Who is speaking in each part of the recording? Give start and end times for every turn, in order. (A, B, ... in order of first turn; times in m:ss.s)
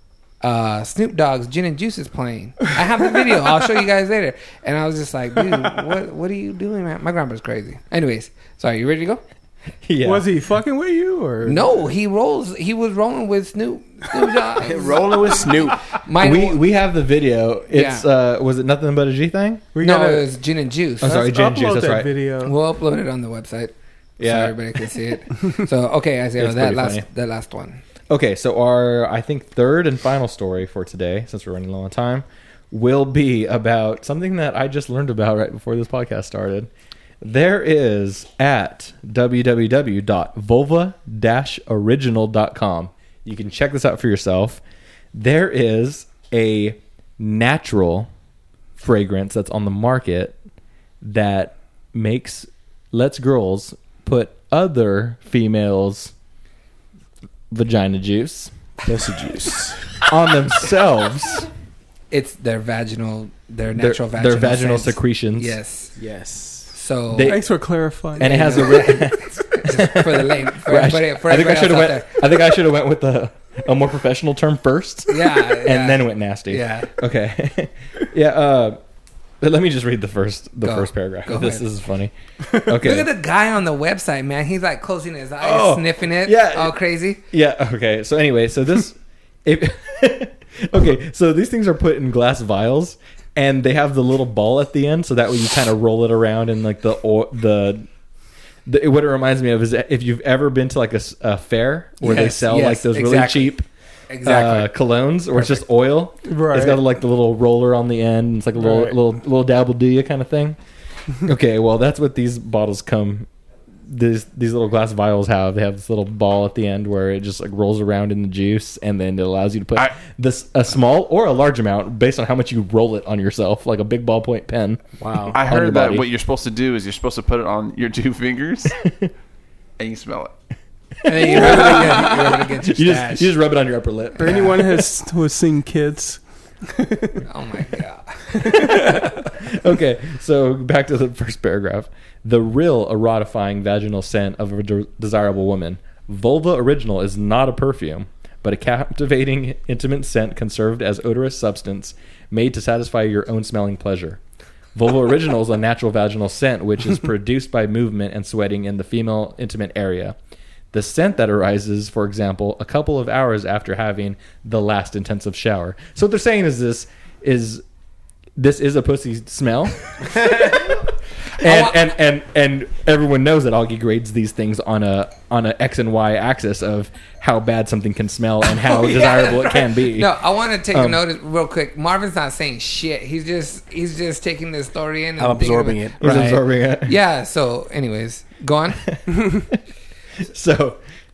0:00.4-0:09.2 A
0:09.8-0:10.3 B
0:10.0-0:11.9 C
0:11.4-0:16.6 A
0:14.6-0:15.8 D
0:16.2-0:19.6 B
0:17.7-0:18.1 A
0:19.7-0:20.3 C
0:19.8-0:21.2 A
0:21.0-0:22.1 B
0:21.0-0:22.6 C
0:22.4-0:27.8 A
0:24.2-0:24.6 B
0:26.4-0:27.1 B
0:28.1-0:36.7 B
0:37.2-0:44.6 B
0:45.1-0:48.1 B
0:48.8-0:50.4 B
0:51.0-0:56.1 B
0:57.5-0:58.5 B
0:58.8-1:00.0 D
1:00.1-1:01.5 B
1:02.1-1:05.9 A
1:03.8-1:05.6 B
1:06.0-1:06.7 D
1:06.7-1:07.4 A
1:07.1-1:07.4 B
1:07.2-1:08.7 C
1:08.2-1:18.8 B
1:08.2-1:12.2 A
1:15.1-1:16.9 A
1:19.4-1:23.1 B
1:20.6-1:21.6 A
1:22.8-1:27.2 A
1:25.4-1:26.8 B
1:27.3-1:37.9 B
1:38.7-1:43.6 B
1:42.0-1:43.6 A
1:44.1-1:44.7 A
1:44.2-1:50.6 B
1:46.2-1:46.8 C
1:48.6-1:49.0 C
1:51.2-1:53.3 B
1:53.9-2:04.8 B
2:05.0-2:05.4 D
2:05.3-2:08.8 E
2:05.4-2:06.1 B
2:09.8-2:10.3 E
2:11.0-2:13.3 A
2:11.1-2:14.7 B
2:14.2-2:17.2 C
2:17.3-2:18.4 A
2:18.5-2:34.2 B
2:34.8-2:40.2 B
2:40.7-2:47.6 B
2:48.4-2:50.8 B
2:51.4-3:01.0 B
2:51.4-2:51.8 A
2:58.7-3:08.8 A
3:05.2-3:06.1 D
3:06.0-3:07.0 B
3:10.2-3:10.8 B